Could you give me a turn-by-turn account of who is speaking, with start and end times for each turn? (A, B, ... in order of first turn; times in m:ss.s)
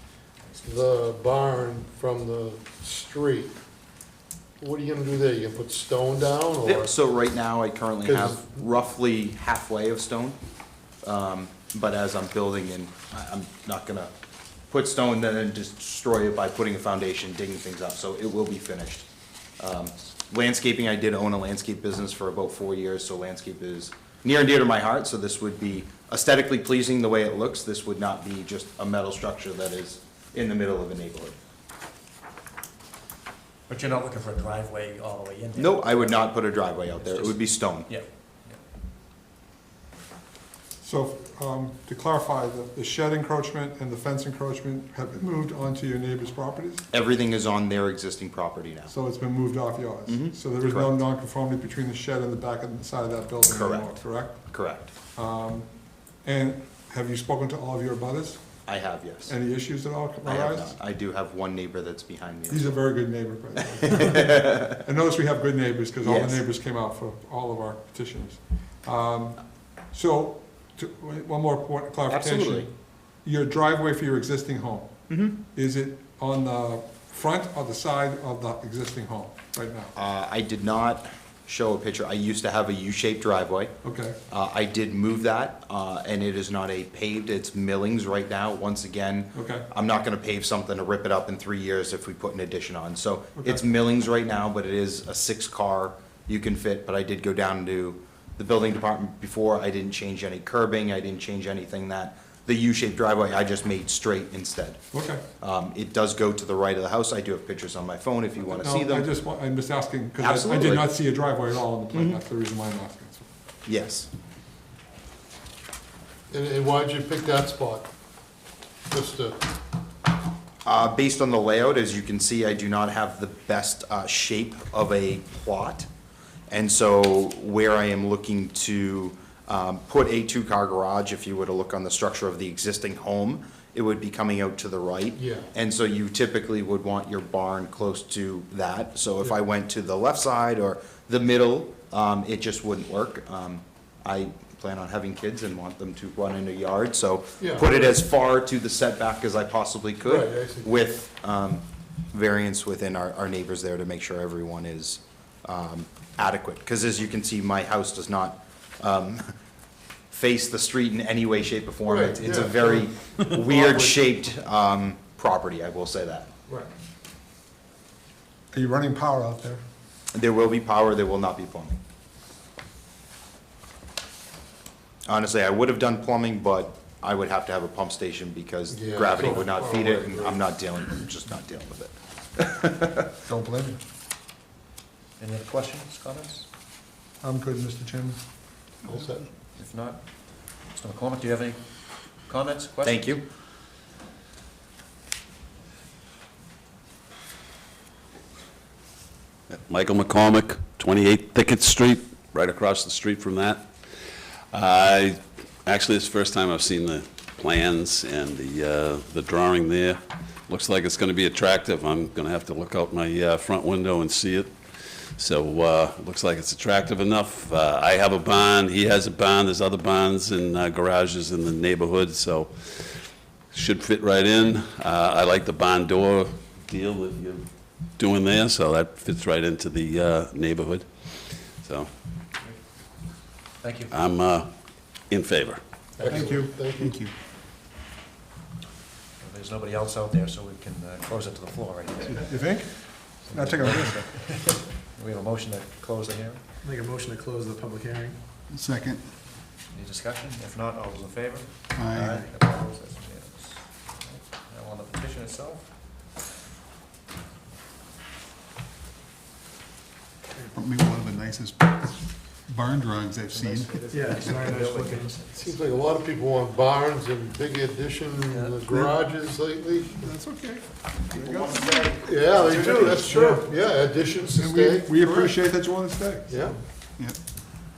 0:00.5-0:00.8 A
0:00.6-0:03.6 B
0:04.6-0:06.9 B
0:06.6-0:10.4 C
0:08.0-0:08.5 B
0:11.0-0:14.1 C
0:14.7-0:19.1 C
0:19.6-0:31.4 C
0:33.7-0:38.6 A
0:35.6-0:37.9 C
0:40.8-0:46.8 D
0:46.9-0:48.9 C
0:48.9-0:54.5 D
0:50.1-0:51.0 C
0:53.5-0:54.9 C
0:55.2-0:55.7 D
0:56.2-0:58.5 D
0:58.7-0:59.3 C
0:59.3-1:00.8 D
1:00.2-1:02.8 C
1:02.5-1:19.9 D
1:03.8-1:04.7 C
1:06.0-1:06.4 C
1:12.1-1:12.7 C
1:15.1-1:15.4 C
1:20.0-1:23.7 C
1:23.8-1:24.2 D
1:24.3-1:44.8 C
1:29.3-1:29.7 D
1:33.4-1:33.6 D
1:44.9-1:45.2 D
1:45.4-1:49.1 C
1:48.5-1:53.3 D
1:50.2-1:50.9 C
1:51.9-1:52.2 C
1:53.7-1:54.1 C
1:56.3-1:57.9 B
1:58.9-1:59.4 B
2:00.6-2:05.9 C
2:06.5-2:39.2 C
2:15.2-2:15.5 B
2:27.4-2:27.9 B
2:30.0-2:30.7 B
2:40.1-2:46.3 C
2:41.9-2:44.0 B
2:48.5-2:49.6 D
2:50.2-2:51.8 C
2:55.1-3:03.0 C
2:58.7-3:00.4 B
3:03.3-3:03.8 D
3:05.2-3:06.5 A
3:07.2-3:08.2 D
3:08.8-3:09.3 B
3:09.5-3:13.2 A
3:12.8-3:13.2 C
3:19.5-3:51.9 E
3:52.4-3:53.9 A
3:53.9-3:54.5 E
3:55.0-3:55.6 E
3:56.0-3:57.0 B
3:56.0-3:56.5 A
3:56.1-3:56.5 D
3:56.8-3:57.1 F
3:59.2-4:06.4 A
4:02.3-4:04.1 D
4:06.6-4:08.2 G
4:08.5-4:09.1 F
4:09.7-4:16.2 A
4:11.7-4:12.3 F
4:20.5-4:23.7 F
4:23.3-4:25.9 A
4:23.9-4:25.2 G
4:25.4-4:30.1 B
4:28.3-4:28.7 A
4:30.0-4:31.9 D
4:31.1-4:33.2 A
4:32.0-4:35.4 B
4:34.4-4:36.4 D
4:36.3-4:36.6 B